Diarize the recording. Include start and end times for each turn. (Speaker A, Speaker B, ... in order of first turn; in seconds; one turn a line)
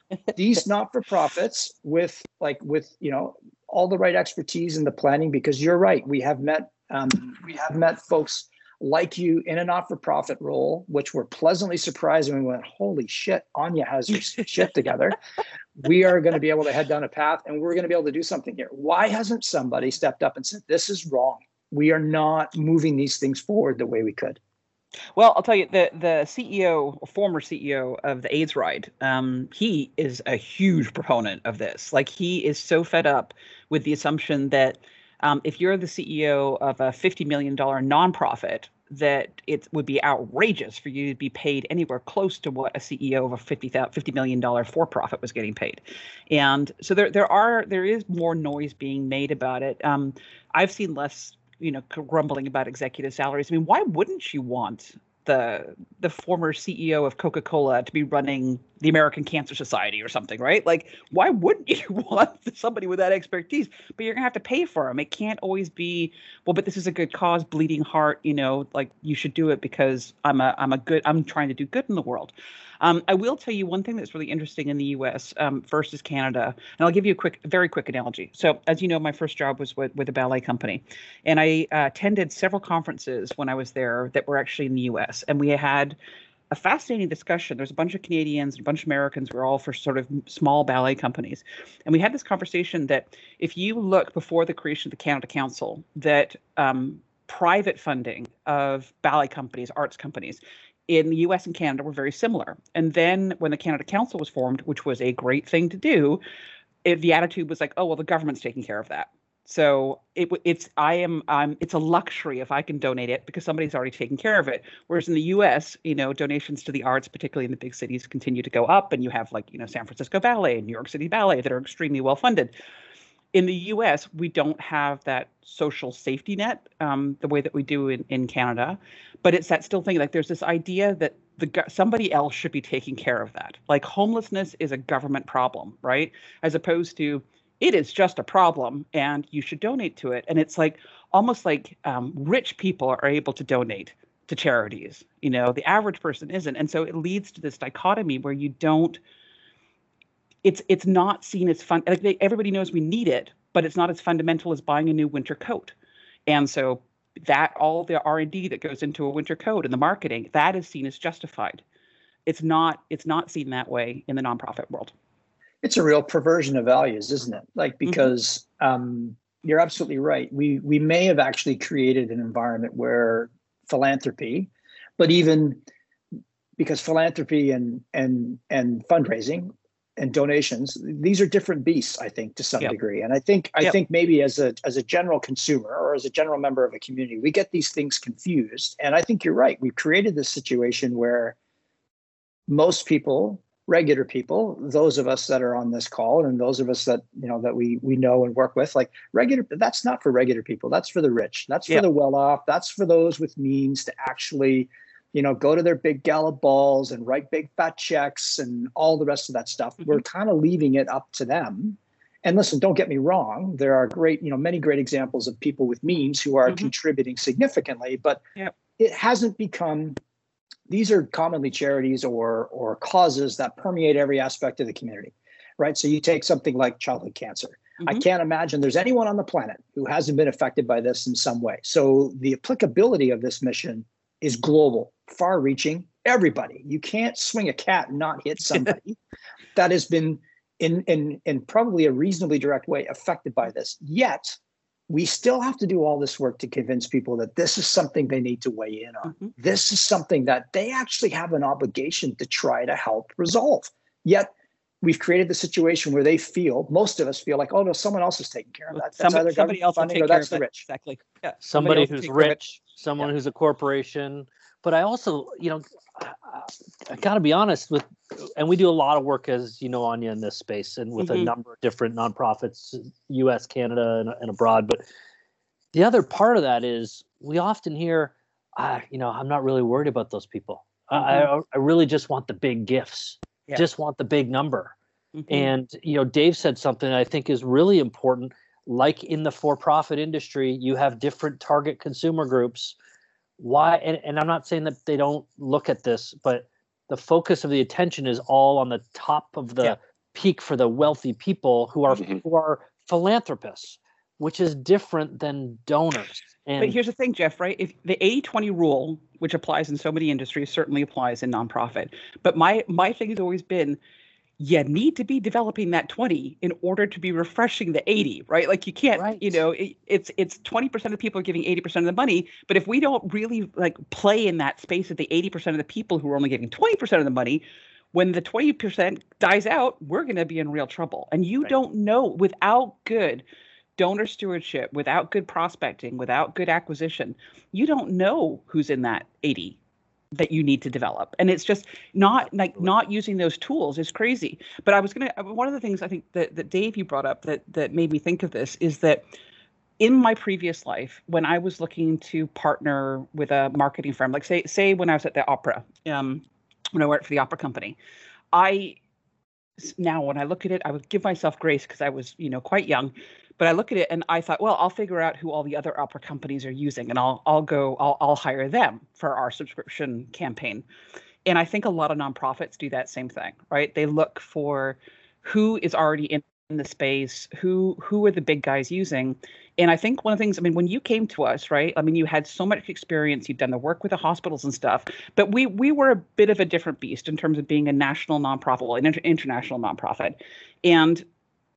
Speaker A: 0.3-15.2
Speaker A: 15.8-24.4
Speaker B: 25.1-86.0
Speaker B: 86.5-106.2
Speaker B: 106.8-122.5
Speaker B: 123.3-149.0
Speaker B: 150.4-155.7
Speaker B: 156.3-161.6
Speaker B: 162.2-164.9
Speaker A: 165.6-175.6
Speaker B: 167.8-168.1
Speaker A: 176.6-191.3
Speaker A: 192.5-218.2
Speaker B: 216.5-216.7
Speaker A: 218.8-220.0
Speaker A: 220.7-238.9
Speaker A: 239.5-244.4
Speaker A: 244.9-260.6
Speaker B: 258.7-262.4
Speaker C: 261.4-274.8
Speaker B: 271.0-271.3
Speaker C: 275.7-284.7
Speaker B: 280.9-281.3
Speaker B: 285.1-285.5
Speaker C: 285.3-292.8
Speaker C: 293.4-306.8
Speaker B: 306.6-313.8
Speaker B: 314.4-333.2
Speaker C: 318.9-319.4
Speaker B: 333.8-339.6
Speaker B: 340.1-349.0
Speaker C: 342.2-342.7
Speaker B: 349.8-357.8
Speaker B: 358.3-358.8
Speaker B: 359.6-370.6
Speaker B: 371.2-391.0